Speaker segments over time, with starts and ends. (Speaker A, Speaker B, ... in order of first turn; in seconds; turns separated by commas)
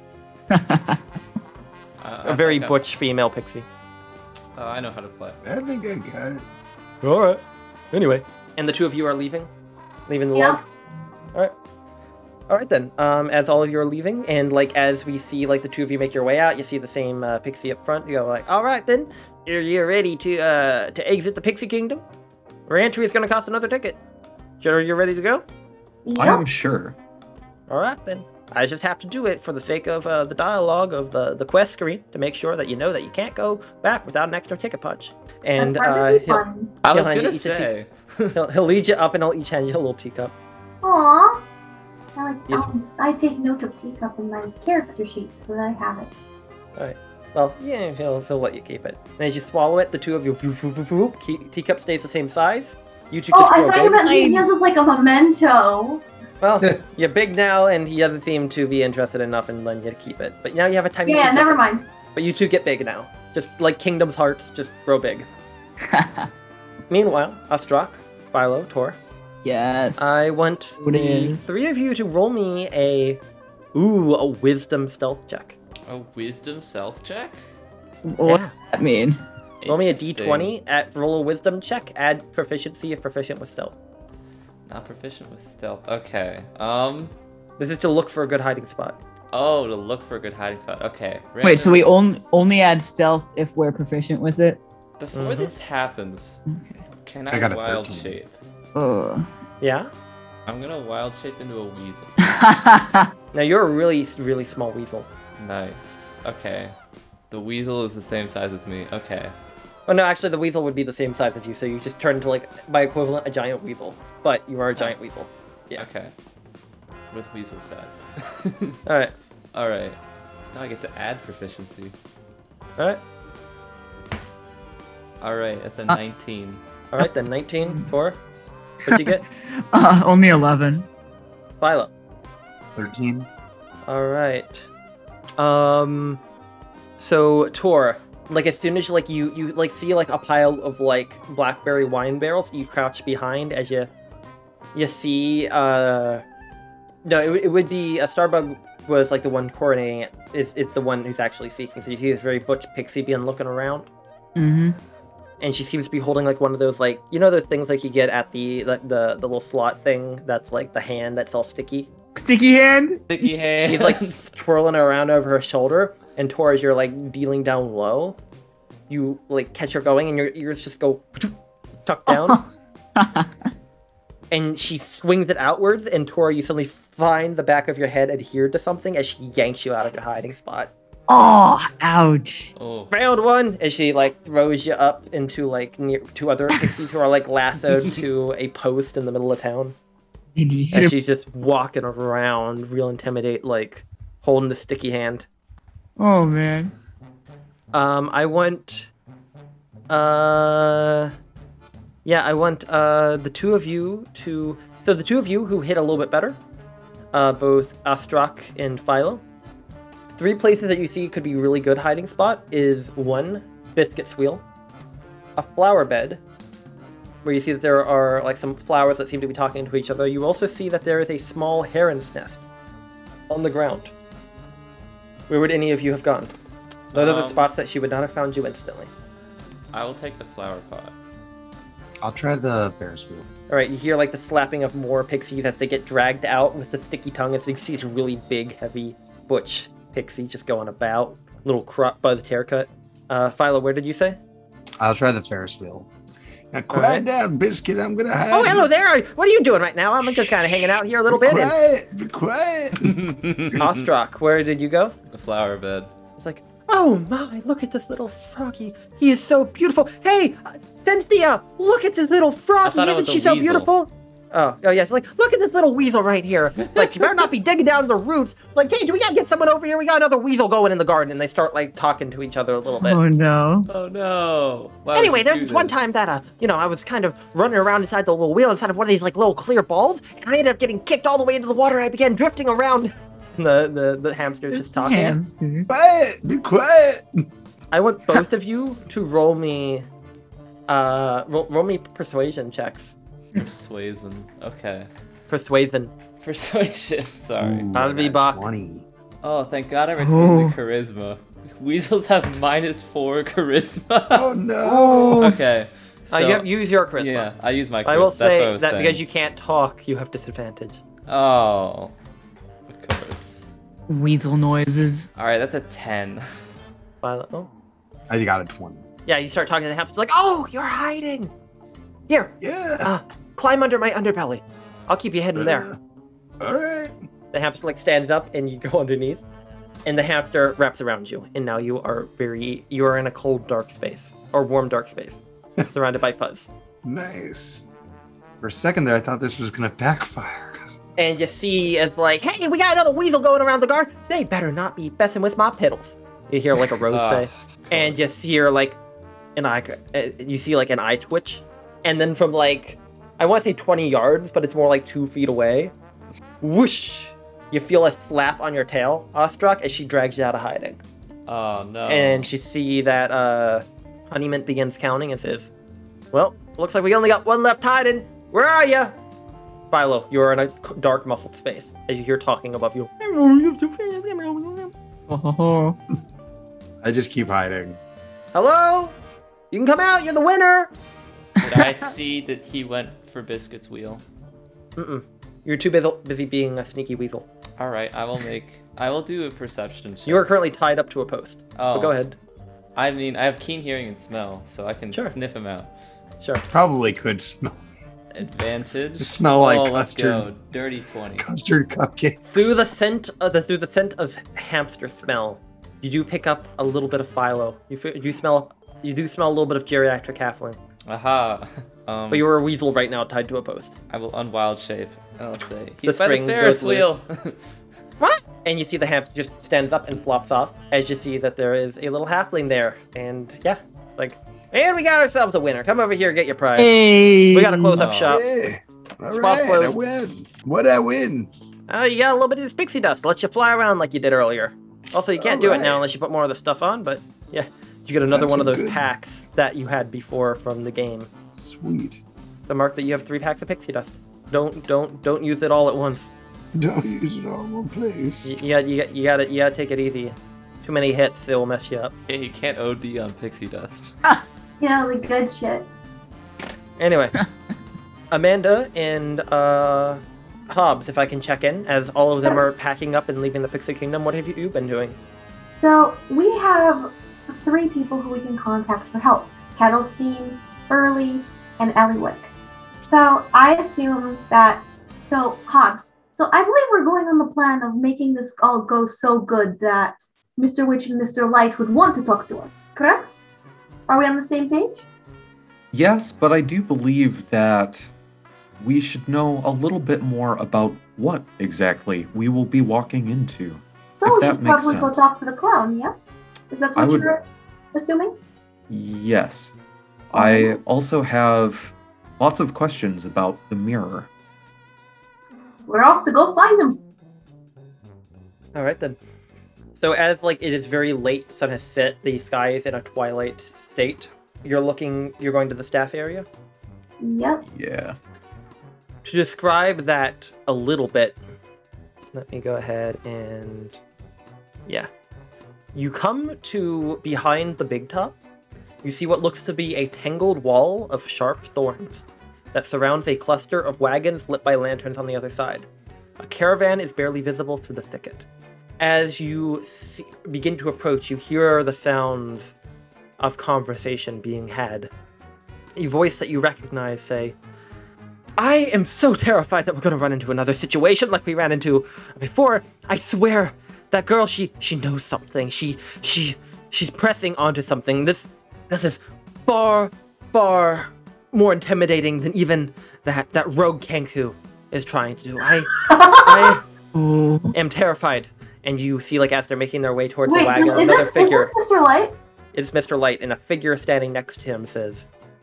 Speaker A: 0.5-1.0, Speaker B: 2.0-2.8, Speaker C: 2.2-3.6, Speaker B: 4.5-5.4, Speaker D: 5.4-6.4, Speaker C: 7.0-9.5, Speaker C: 10.1-10.6, Speaker E: 10.3-10.6, Speaker C: 12.5-22.0, Speaker C: 22.7-24.0, Speaker C: 24.6-25.4, Speaker E: 26.0-26.4, Speaker F: 26.1-26.9, Speaker C: 27.7-37.7, Speaker E: 35.6-36.7, Speaker B: 36.8-38.4, Speaker C: 38.3-40.3, Speaker E: 40.8-41.4, Speaker E: 42.1-46.1, Speaker C: 46.8-54.0, Speaker E: 53.3-56.0, Speaker A: 54.0-54.5, Speaker C: 56.4-61.6, Speaker E: 61.0-61.8, Speaker C: 62.1-65.3, Speaker A: 65.9-66.3, Speaker C: 66.9-69.0, Speaker A: 69.4-70.1, Speaker C: 70.0-73.2, Speaker A: 70.8-71.4, Speaker C: 73.7-75.5, Speaker B: 75.9-77.4, Speaker A: 78.0-79.2, Speaker C: 78.2-78.5, Speaker B: 79.6-80.5, Speaker C: 79.7-83.8, Speaker B: 84.7-87.1, Speaker C: 87.6-89.0, Speaker B: 89.3-91.9, Speaker A: 91.4-94.6, Speaker B: 95.0-98.3, Speaker C: 95.1-95.5, Speaker D: 97.3-98.1, Speaker A: 98.7-99.3, Speaker C: 99.6-99.9, Speaker B: 100.5-102.1, Speaker A: 102.2-103.1, Speaker C: 103.3-105.1, Speaker B: 105.4-106.7, Speaker B: 107.3-109.3, Speaker C: 109.9-115.8, Speaker B: 115.8-116.1, Speaker B: 117.1-118.8, Speaker C: 118.8-119.1, Speaker B: 119.5-120.0, Speaker B: 120.5-121.9, Speaker B: 125.2-126.6, Speaker C: 126.9-128.2, Speaker C: 128.8-129.2, Speaker A: 128.9-130.9, Speaker C: 131.6-131.9, Speaker D: 132.8-133.3, Speaker C: 133.8-134.7, Speaker C: 135.4-136.2, Speaker C: 137.0-143.9, Speaker C: 144.7-146.2, Speaker C: 147.0-153.9, Speaker A: 154.3-154.8, Speaker C: 155.4-161.9, Speaker A: 162.1-163.3, Speaker B: 163.1-164.2, Speaker C: 163.6-168.2, Speaker C: 168.9-172.4, Speaker A: 172.1-173.3, Speaker C: 174.3-180.7, Speaker A: 181.1-182.5, Speaker B: 182.6-182.9, Speaker C: 182.9-189.8, Speaker A: 190.3-190.9, Speaker C: 190.7-195.2, Speaker A: 196.0-196.7, Speaker C: 197.7-198.9, Speaker C: 199.9-201.1, Speaker C: 202.0-206.4, Speaker C: 207.1-209.2, Speaker C: 210.1-214.4, Speaker C: 215.4-216.2, Speaker C: 217.2-222.4, Speaker C: 223.3-223.9, Speaker C: 225.3-226.3, Speaker B: 226.9-227.5, Speaker C: 226.9-228.9, Speaker B: 229.7-230.9, Speaker D: 232.0-233.2, Speaker C: 233.5-244.2, Speaker D: 244.8-245.9, Speaker D: 246.5-248.7, Speaker C: 246.7-247.1, Speaker C: 248.3-251.5, Speaker D: 250.0-253.6, Speaker B: 252.8-253.7, Speaker C: 253.5-254.9, Speaker B: 255.1-255.9, Speaker C: 256.2-273.0, Speaker B: 262.6-263.7, Speaker B: 266.8-267.2, Speaker A: 272.8-273.7, Speaker B: 273.7-275.9, Speaker C: 274.9-285.2, Speaker A: 284.5-285.7, Speaker D: 285.7-287.2, Speaker C: 287.7-289.9, Speaker C: 290.7-292.9, Speaker B: 293.3-294.9, Speaker C: 295.3-295.9, Speaker B: 296.2-297.8, Speaker D: 297.4-298.9, Speaker C: 297.7-298.4, Speaker B: 299.2-304.3, Speaker A: 300.0-300.6, Speaker D: 304.1-305.4, Speaker A: 304.7-305.3, Speaker B: 304.9-309.0, Speaker C: 306.1-307.3, Speaker C: 307.8-310.8, Speaker B: 311.1-311.9, Speaker B: 312.7-313.5, Speaker A: 313.9-315.1, Speaker B: 315.1-316.2, Speaker C: 317.0-317.5, Speaker D: 318.1-318.8, Speaker C: 319.1-321.3, Speaker C: 322.1-325.7, Speaker D: 322.4-322.9, Speaker D: 325.3-325.7, Speaker D: 326.4-326.9, Speaker C: 327.3-329.2, Speaker C: 329.8-336.5, Speaker D: 336.8-337.6, Speaker D: 338.4-340.9, Speaker C: 341.0-348.8, Speaker B: 346.9-348.1, Speaker C: 349.4-355.7, Speaker C: 356.4-360.8, Speaker B: 361.3-362.3, Speaker C: 361.9-365.5, Speaker C: 366.1-368.9, Speaker C: 369.7-374.7, Speaker A: 375.1-375.8, Speaker D: 376.8-377.8, Speaker C: 378.3-378.9, Speaker C: 379.5-380.7, Speaker B: 381.4-384.0, Speaker C: 384.8-387.2, Speaker B: 387.6-390.3, Speaker C: 390.1-392.1, Speaker B: 391.6-391.9, Speaker B: 392.8-395.7, Speaker D: 396.5-397.7, Speaker B: 398.1-401.2, Speaker D: 399.0-400.3, Speaker D: 401.2-402.7, Speaker C: 402.2-410.6, Speaker B: 410.9-412.3, Speaker C: 412.1-413.7, Speaker B: 413.9-417.4, Speaker C: 415.9-416.9, Speaker C: 418.0-426.8, Speaker A: 426.6-427.8, Speaker C: 427.3-428.2, Speaker B: 427.8-428.2, Speaker D: 428.1-431.3, Speaker C: 429.1-429.8, Speaker C: 431.7-441.1, Speaker D: 435.2-435.8, Speaker D: 438.1-438.8, Speaker D: 441.3-442.0, Speaker C: 442.5-446.1, Speaker D: 446.5-448.3, Speaker C: 448.2-451.9, Speaker B: 452.1-453.9, Speaker E: 454.6-455.7, Speaker C: 456.8-457.1, Speaker C: 458.1-464.9, Speaker E: 465.5-472.3, Speaker E: 472.8-483.2, Speaker E: 483.9-484.8, Speaker F: 485.7-487.9, Speaker F: 488.6-495.0, Speaker E: 493.9-497.2, Speaker F: 496.7-497.1, Speaker E: 497.7-498.2, Speaker F: 498.7-499.5, Speaker F: 500.1-504.1, Speaker E: 500.1-500.6, Speaker E: 505.7-506.8, Speaker C: 508.5-509.0, Speaker C: 509.8-516.2, Speaker E: 517.0-517.4, Speaker F: 517.4-518.0, Speaker C: 519.0-521.2, Speaker C: 522.1-523.8, Speaker C: 525.7-528.2, Speaker C: 528.8-535.7, Speaker C: 536.2-538.2, Speaker C: 538.8-542.5, Speaker C: 543.2-544.9, Speaker C: 545.8-547.4, Speaker C: 548.4-566.6, Speaker E: 565.7-566.5, Speaker A: 566.9-567.5, Speaker C: 567.5-571.5, Speaker E: 570.2-572.1, Speaker C: 572.5-575.0